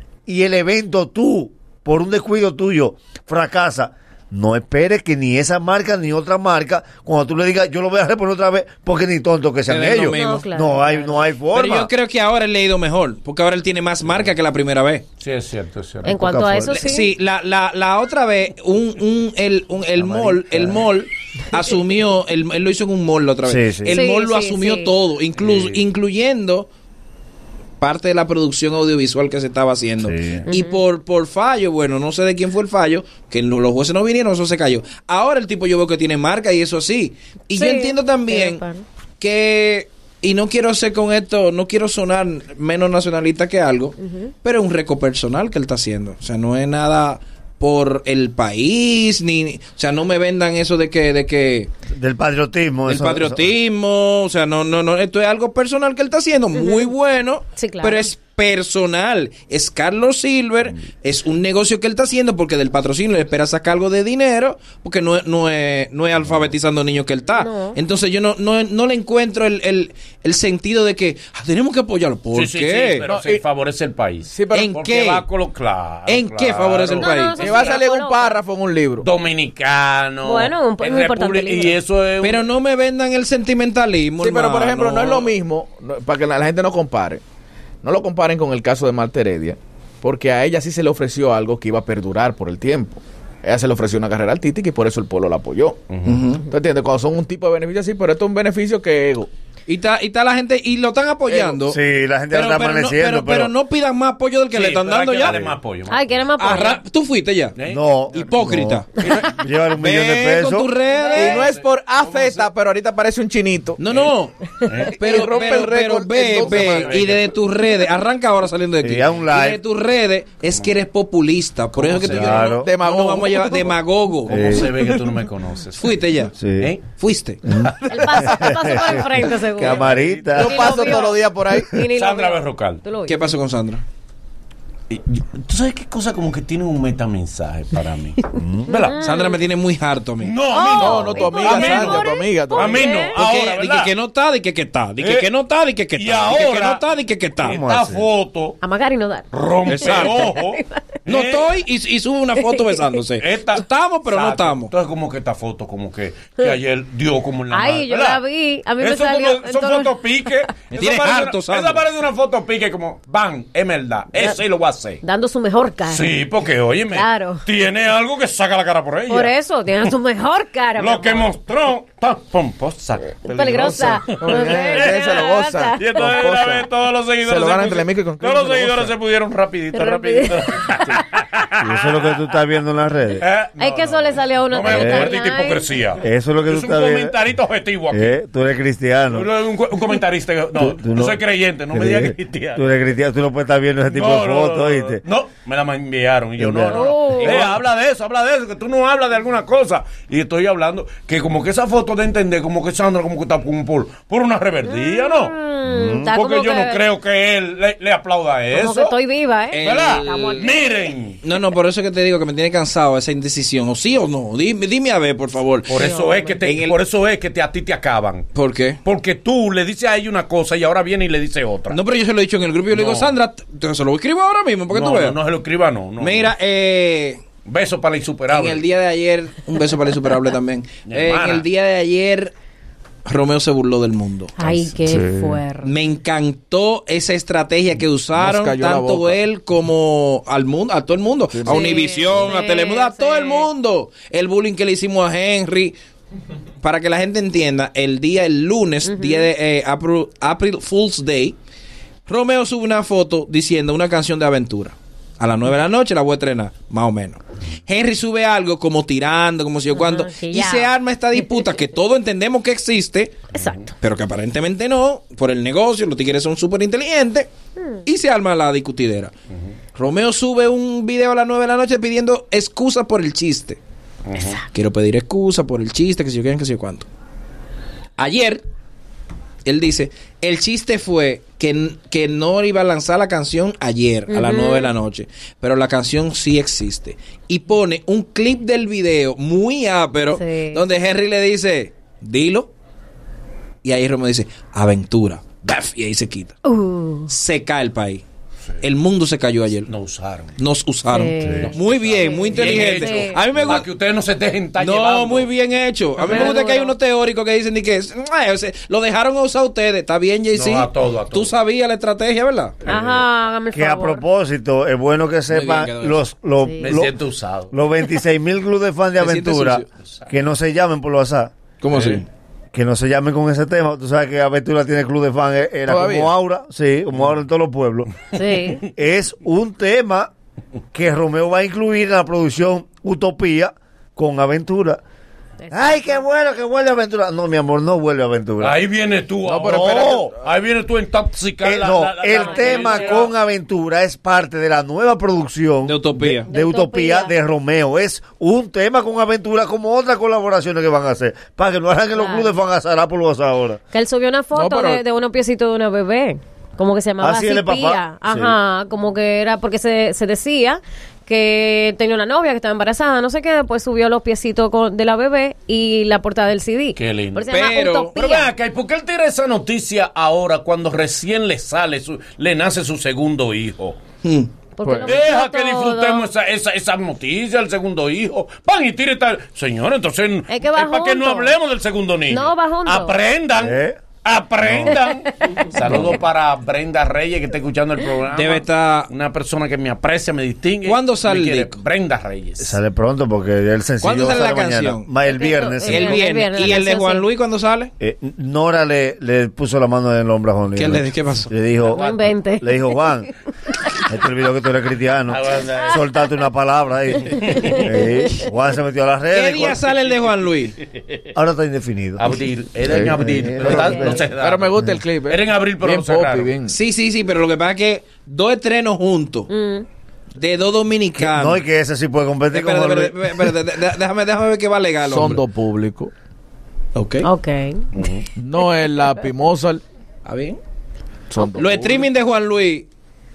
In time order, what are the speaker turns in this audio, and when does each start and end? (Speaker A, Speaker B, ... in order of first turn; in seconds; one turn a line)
Speaker A: 0.3-11.9
Speaker B: 9.7-10.5
Speaker C: 10.1-11.2
Speaker B: 11.5-15.1
Speaker D: 15.2-16.2
Speaker C: 16.1-17.1
Speaker A: 16.1-16.8
Speaker B: 16.7-26.7
Speaker A: 19.9-20.9
Speaker A: 23.4-24.0
Speaker C: 23.9-24.9
Speaker D: 25.4-25.8
Speaker B: 27.8-38.6
Speaker A: 30.0-30.4
Speaker C: 30.5-30.8
Speaker C: 37.5-38.8
Speaker B: 39.2-51.7
Speaker C: 44.0-44.3
Speaker A: 51.9-53.5
Speaker B: 52.9-73.1
Speaker C: 56.5-56.9
Speaker C: 57.6-58.1
Speaker C: 67.3-67.8
Speaker D: 72.3-77.7
Speaker E: 73.1-73.4
Speaker E: 74.3-74.8
Speaker B: 74.5-75.3
Speaker B: 76.1-77.5
Speaker C: 77.0-78.4
Speaker E: 77.4-79.1
Speaker D: 79.0-82.5
Speaker C: 80.2-81.8
Speaker B: 82.2-85.3
Speaker E: 84.2-87.2
Speaker E: 87.8-95.8
Speaker D: 95.9-96.2
Speaker B: 96.0-96.4
Speaker E: 96.5-99.3
Speaker B: 99.7-101.8
Speaker E: 101.3-101.7
Speaker A: 101.7-103.5
Speaker B: 102.3-105.5
Speaker D: 104.5-106.6
Speaker C: 105.9-106.8
Speaker B: 106.4-107.6
Speaker D: 107.6-107.8
Speaker A: 107.7-110.7
Speaker B: 108.1-109.1
Speaker B: 109.8-111.5
Speaker C: 110.9-111.4
Speaker D: 111.0-112.5
Speaker E: 111.2-113.8
Speaker B: 113.8-114.3
Speaker D: 113.9-114.1
Speaker D: 114.7-115.5
Speaker E: 114.9-117.0
Speaker B: 114.9-124.4
Speaker D: 116.3-117.3
Speaker A: 118.8-119.6
Speaker D: 121.7-122.6
Speaker A: 122.1-122.7
Speaker E: 122.5-123.8
Speaker D: 124.3-126.8
Speaker A: 124.3-124.7
Speaker B: 125.8-126.3
Speaker A: 126.4-126.7
Speaker B: 127.0-127.4
Speaker A: 127.5-130.9
Speaker D: 127.5-127.8
Speaker C: 127.9-133.2
Speaker E: 128.0-128.8
Speaker D: 129.6-131.1
Speaker E: 130.3-131.7
Speaker D: 131.9-132.8
Speaker B: 133.1-133.8
Speaker D: 134.9-139.0
Speaker A: 138.4-138.7
Speaker C: 138.7-139.4
Speaker B: 139.0-140.3
Speaker D: 140.2-143.9
Speaker C: 140.5-143.2
Speaker E: 140.8-142.9
Speaker B: 143.1-147.6
Speaker D: 145.0-145.3
Speaker D: 145.9-146.9
Speaker D: 147.4-148.6
Speaker A: 147.4-148.0
Speaker C: 148.6-149.3
Speaker D: 149.3-151.6
Speaker B: 149.7-150.3
Speaker C: 149.8-150.8
Speaker B: 151.1-154.7
Speaker C: 152.4-152.9
Speaker D: 153.2-158.2
Speaker C: 157.5-160.5
Speaker D: 158.8-165.0
Speaker B: 160.7-161.8
Speaker C: 165.0-166.1
Speaker D: 165.9-169.3
Speaker C: 166.9-167.4
Speaker C: 169.1-171.3
Speaker D: 170.8-175.1
Speaker C: 173.2-176.4
Speaker E: 174.1-176.7
Speaker D: 175.8-182.2
Speaker E: 177.2-178.9
Speaker C: 179.7-181.1
Speaker A: 181.6-183.2
Speaker D: 183.2-188.2
Speaker C: 183.6-185.7
Speaker A: 184.6-185.2
Speaker A: 186.0-187.2
Speaker A: 187.9-189.3
Speaker D: 189.1-192.7
Speaker A: 190.6-191.2
Speaker A: 191.7-195.0
Speaker D: 193.9-205.3
Speaker A: 196.4-196.9
Speaker C: 196.7-197.6
Speaker C: 204.7-206.8
Speaker A: 205.7-206.1
Speaker D: 206.1-209.0
Speaker C: 208.5-210.7
Speaker B: 209.5-210.5
Speaker D: 209.6-211.2
Speaker B: 211.2-215.8
Speaker D: 215.7-218.3
Speaker C: 215.7-216.3
Speaker B: 216.4-216.8
Speaker B: 218.3-218.8
Speaker D: 218.8-221.8
Speaker B: 221.7-225.2
Speaker D: 222.7-223.2
Speaker D: 224.7-226.3
Speaker B: 226.0-227.2
Speaker D: 227.4-228.6
Speaker B: 228.3-232.3
Speaker D: 230.9-231.5
Speaker B: 233.1-234.6
Speaker C: 234.4-235.7
Speaker A: 234.8-235.4
Speaker B: 235.6-245.8
Speaker E: 238.2-239.2
Speaker E: 241.3-241.7
Speaker C: 241.4-243.5
Speaker B: 246.6-251.4
Speaker C: 248.9-249.3
Speaker B: 252.1-263.2
Speaker C: 259.7-261.5
Speaker C: 263.3-263.7
Speaker D: 263.3-263.7
Speaker B: 263.8-267.3
Speaker C: 267.6-267.8
Speaker B: 267.9-269.1
Speaker B: 269.8-273.6
Speaker D: 274.1-274.4
Speaker B: 274.5-276.9
Speaker B: 278.0-278.4
Speaker B: 279.4-292.5
Speaker C: 284.1-284.7
Speaker C: 290.1-290.6
Speaker B: 293.6-296.4
Speaker C: 296.4-297.1
Speaker B: 297.1-298.0
Speaker B: 298.6-299.7
Speaker D: 299.7-300.4
Speaker B: 300.4-303.7
Speaker C: 300.9-303.2
Speaker D: 301.4-305.3
Speaker B: 304.6-312.7
Speaker C: 306.0-306.8
Speaker D: 310.3-311.4
Speaker A: 312.6-316.9
Speaker C: 312.7-314.0
Speaker B: 315.3-316.0
Speaker C: 316.4-316.7
Speaker D: 316.6-317.6
Speaker A: 317.5-321.3
Speaker B: 319.0-319.6
Speaker B: 321.6-322.1
Speaker D: 321.7-322.0
Speaker A: 322.5-328.0
Speaker E: 325.7-326.1
Speaker C: 328.1-328.6
Speaker A: 328.6-330.1
Speaker A: 330.7-334.8
Speaker C: 335.4-336.0
Speaker A: 335.5-338.6
Speaker D: 338.4-343.1
Speaker E: 339.2-340.2
Speaker A: 339.4-340.1
Speaker A: 341.4-353.6
Speaker C: 342.2-343.0
Speaker B: 345.7-346.3
Speaker C: 346.3-347.1
Speaker C: 351.9-352.3
Speaker C: 353.7-368.3
Speaker E: 354.3-354.8
Speaker A: 357.0-358.4
Speaker D: 366.8-373.8
Speaker B: 367.3-367.9
Speaker B: 374.0-374.3
Speaker C: 374.6-376.1
Speaker E: 374.6-374.9
Speaker D: 374.9-392.6
Speaker C: 380.3-381.4
Speaker C: 382.1-383.0
Speaker A: 383.4-383.8
Speaker A: 384.4-384.8
Speaker C: 384.7-385.8
Speaker A: 385.7-386.0
Speaker B: 388.1-388.9
Speaker B: 390.6-391.6
Speaker A: 392.4-396.0
Speaker B: 393.8-394.9
Speaker C: 395.1-397.1
Speaker B: 395.7-397.7
Speaker A: 397.8-403.1
Speaker B: 400.6-401.3
Speaker D: 401.6-402.2
Speaker C: 401.7-402.8
Speaker A: 403.8-409.6
Speaker D: 405.1-405.8
Speaker D: 407.1-407.7
Speaker C: 407.4-408.2
Speaker B: 409.1-410.6
Speaker A: 411.1-412.2
Speaker D: 412.0-416.3
Speaker E: 412.7-413.0
Speaker A: 413.0-414.1
Speaker C: 413.5-414.0
Speaker E: 414.1-416.6
Speaker B: 416.5-419.3
Speaker C: 419.3-419.7
Speaker B: 420.2-421.4
Speaker A: 421.0-423.2
Speaker B: 422.3-425.2
Speaker E: 424.8-425.9
Speaker B: 426.8-427.1
Speaker C: 427.0-427.7
Speaker D: 427.8-428.0
Speaker E: 428.2-429.6
Speaker B: 430.1-430.4
Speaker E: 431.1-431.9
Speaker B: 431.4-432.7